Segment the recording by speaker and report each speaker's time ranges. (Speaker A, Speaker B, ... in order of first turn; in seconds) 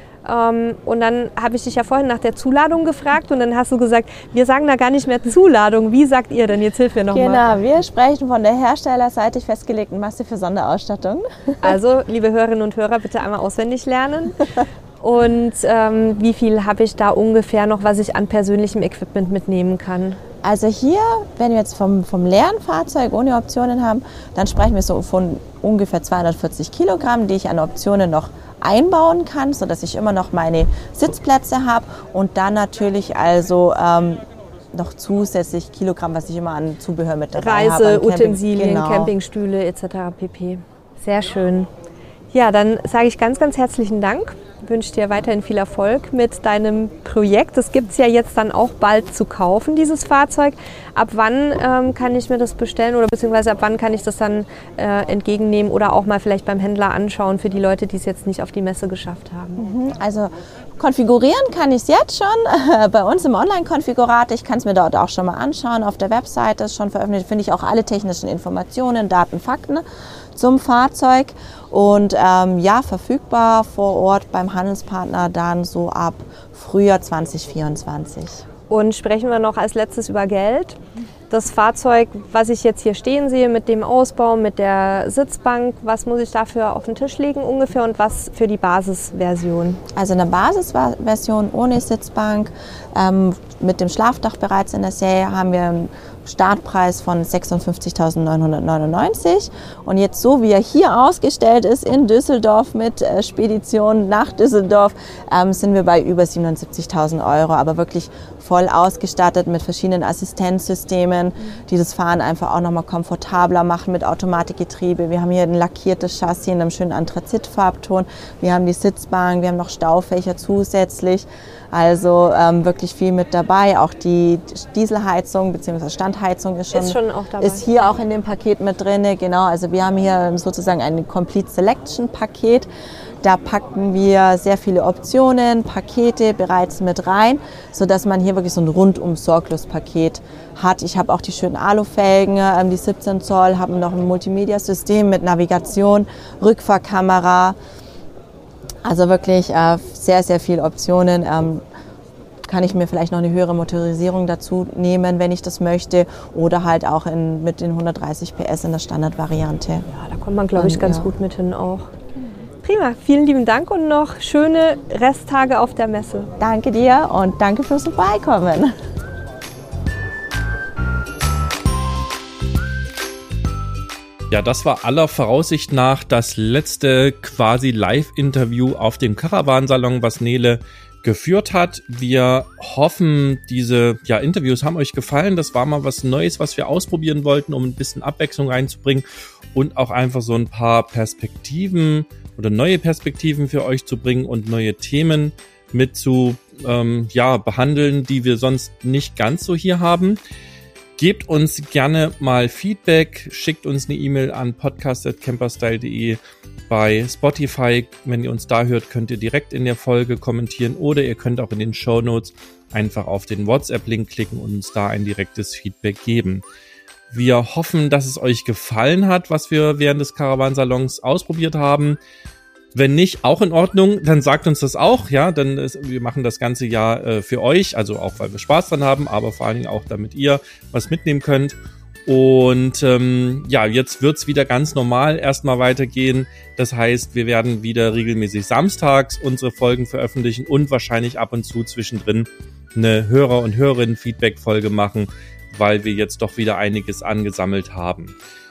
Speaker A: 0.2-7.4, 11.6-20.2, 37.4-41.7, 42.3-59.7, 78.7-80.8, 81.3-89.8, 126.7-127.9, 159.9-161.9, 162.6-166.3
Speaker B: 7.1-11.8, 20.4-39.1, 59.6-69.8, 70.3-78.5, 90.0-132.7, 133.2-147.6, 148.8-151.6, 152.5-159.9, 160.6-161.1, 166.4-168.7
Speaker C: 174.3-200.2, 201.0-206.2, 206.7-216.4, 217.1-222.0, 222.7-248.2